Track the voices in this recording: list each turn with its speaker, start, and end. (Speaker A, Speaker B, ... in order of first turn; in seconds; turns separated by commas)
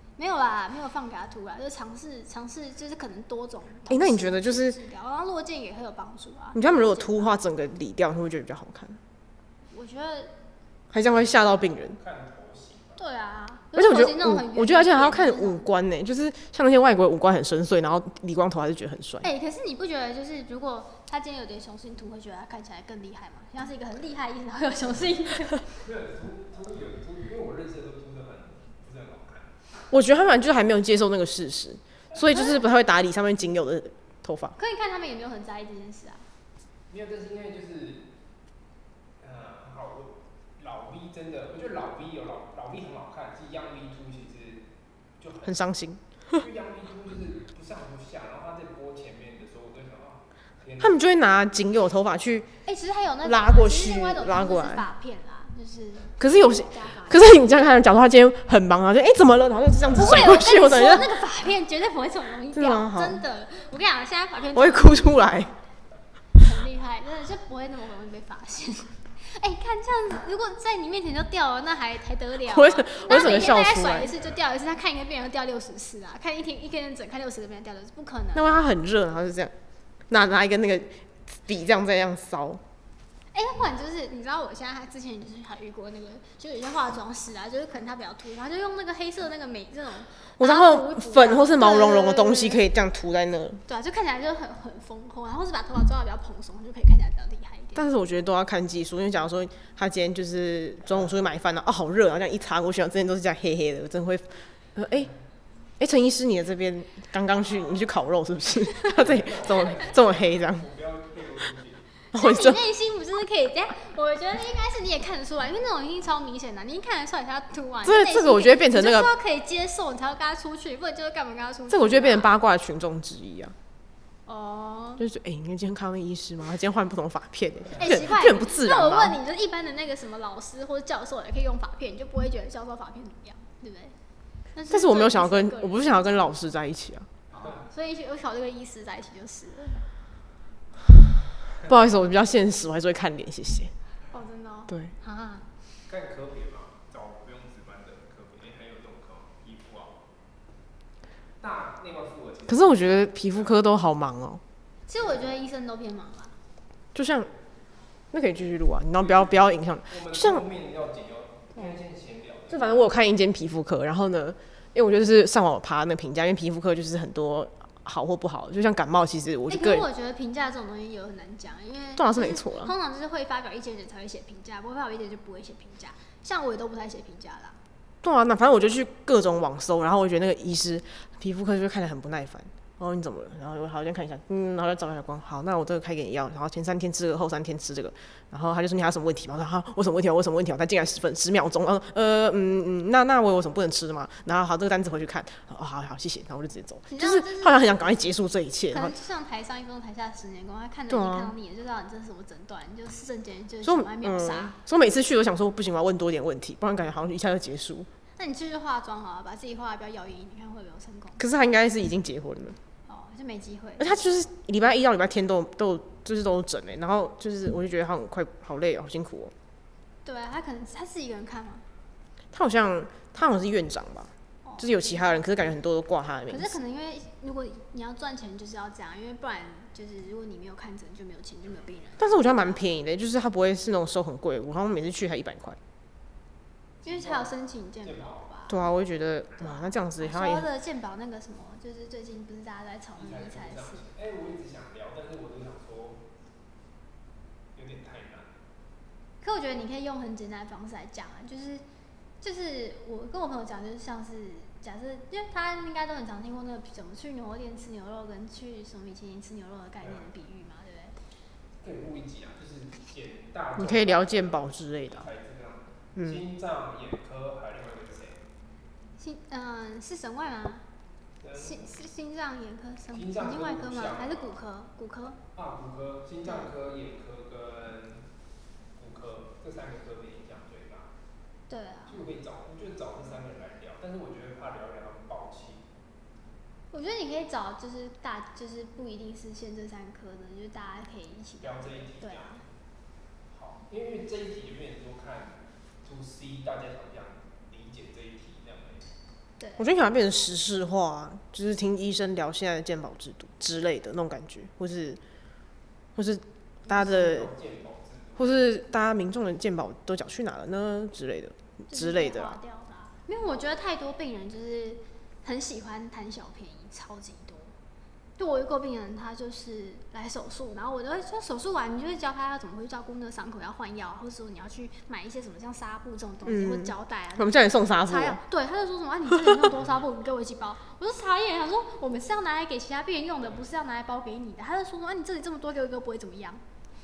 Speaker A: 0.2-7.4, Speaker B: 3.9-4.8, Speaker B: 6.5-9.0, Speaker A: 9.7-10.3, Speaker B: 10.9-12.0, Speaker C: 11.3-13.0, Speaker A: 13.0-15.7, Speaker B: 13.7-19.3, Speaker A: 19.2-25.7, Speaker C: 25.8-29.6, Speaker B: 29.9-34.5, Speaker A: 34.6-36.3, Speaker C: 36.9-38.1, Speaker C: 39.2-44.7, Speaker C: 45.2-45.6, Speaker B: 45.4-46.4, Speaker C: 46.3-51.0, Speaker B: 50.8-52.5, Speaker A: 52.6-57.4, Speaker B: 53.2-54.8, Speaker B: 56.2-61.1, Speaker A: 59.9-65.2, Speaker B: 62.5-63.2, Speaker B: 64.5-65.5, Speaker A: 66.3-78.6, Speaker B: 72.4-74.1, Speaker B: 78.3-79.5, Speaker B: 80.1-82.6, Speaker A: 83.3-92.6, Speaker B: 90.4-93.6, Speaker A: 93.7-97.8, Speaker B: 97.8-105.1, Speaker B: 105.8-110.7, Speaker C: 108.9-111.9, Speaker B: 112.1-112.6, Speaker A: 112.1-122.3, Speaker B: 117.8-119.1, Speaker B: 121.7-123.5, Speaker A: 124.3-125.0, Speaker B: 125.0-129.2, Speaker A: 127.8-133.9, Speaker A: 134.5-136.3, Speaker B: 134.7-137.1, Speaker C: 137.3-137.6, Speaker A: 137.4-139.8, Speaker B: 141.6-143.7, Speaker A: 144.1-145.5, Speaker C: 145.9-150.0, Speaker C: 151.4-153.6, Speaker B: 152.5-154.4, Speaker A: 154.9-156.3, Speaker B: 156.9-157.3, Speaker B: 158.1-160.4, Speaker C: 159.0-162.9, Speaker B: 162.5-169.8, Speaker A: 169.5-177.6, Speaker B: 171.9-172.7, Speaker B: 178.0-198.9, Speaker A: 196.9-197.6, Speaker A: 198.7-204.6, Speaker B: 200.9-201.3, Speaker B: 203.6-207.9, Speaker A: 208.2-211.2, Speaker B: 211.2-212.6, Speaker A: 212.8-214.0, Speaker B: 213.8-219.3, Speaker A: 220.0-221.6, Speaker B: 222.3-226.5, Speaker A: 224.4-225.2, Speaker A: 226.3-232.6, Speaker B: 232.0-235.6, Speaker C: 236.8-238.3, Speaker A: 236.8-238.6, Speaker B: 238.5-240.5, Speaker A: 239.4-243.8, Speaker C: 242.9-246.0, Speaker C: 247.5-248.3, Speaker A: 249.2-251.6, Speaker A: 252.2-260.9, Speaker C: 261.6-268.2, Speaker B: 263.6-265.1, Speaker B: 265.9-266.2, Speaker A: 269.0-270.6, Speaker C: 271.2-271.7, Speaker A: 271.4-275.2, Speaker C: 272.9-274.4, Speaker C: 275.3-278.1, Speaker C: 278.8-280.9, Speaker A: 281.5-282.0, Speaker C: 281.9-285.6, Speaker A: 286.7-292.4, Speaker C: 291.4-292.5, Speaker C: 293.3-298.9, Speaker A: 299.4-299.6, Speaker B: 299.6-305.0, Speaker B: 305.9-307.3, Speaker C: 306.7-308.4, Speaker B: 308.2-312.4, Speaker A: 311.7-317.5, Speaker A: 318.2-336.4, Speaker B: 326.2-328.2